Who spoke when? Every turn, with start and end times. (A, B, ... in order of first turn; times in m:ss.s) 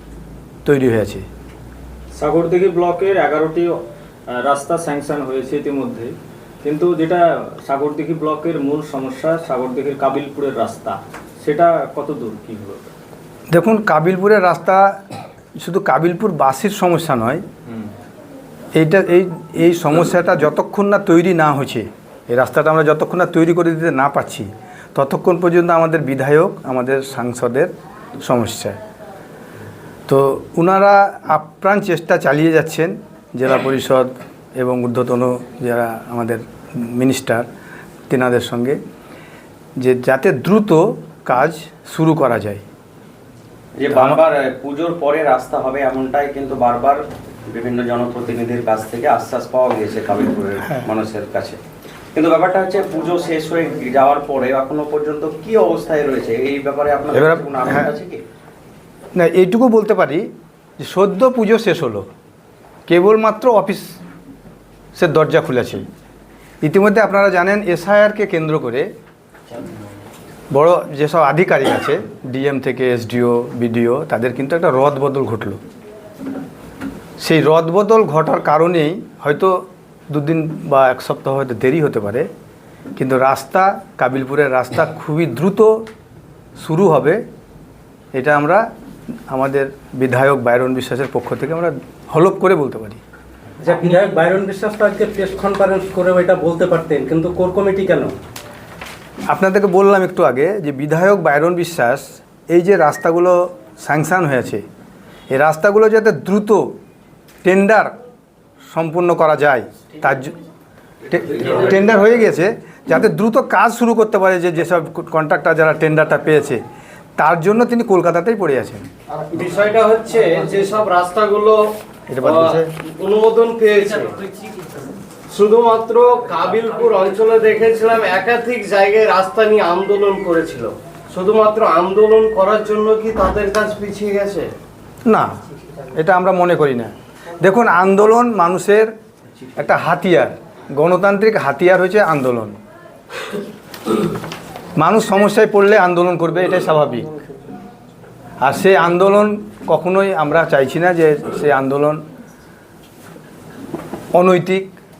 0:00.6-0:01.2 A
0:02.2-0:03.8 B
0:04.4-0:12.9 B
0:13.5-0:15.0 A
0:15.6-0:17.4 A
0:18.8-0:28.8 A
0:30.1-0:37.5 A
0:38.1-0:38.8 A
0:39.8-0:42.6 A
0:43.8-0:51.6 C
0:43.9-0:44.2 A
0:50.6-0:50.9 A
0:52.1-0:58.2 C
0:57.1-0:57.9 A
0:59.1-1:02.1 A
1:02.9-1:03.9 A
1:05.0-1:05.8 A
1:06.6-1:08.9 A
1:10.5-1:15.6 A
1:17.2-1:22.3 A
1:23.0-1:25.9 A
1:26.6-1:27.2 A
1:28.1-1:28.6 A
1:29.3-1:33.0 A
1:33.6-1:38.1 D
1:39.3-1:44.6 A
1:45.3-1:46.8 A
1:47.4-1:48.0 A
1:48.7-1:50.3 A
1:51.0-1:56.6 A
1:57.2-1:58.9 A
1:59.3-2:01.6 E
2:02.1-2:02.7 A
2:02.2-2:04.2 E
2:05.3-2:14.5 E
2:15.0-2:18.9 A
2:19.5-2:22.6 A
2:24.8-2:27.2 A
2:28.4-2:32.0 A
2:34.1-2:34.7 A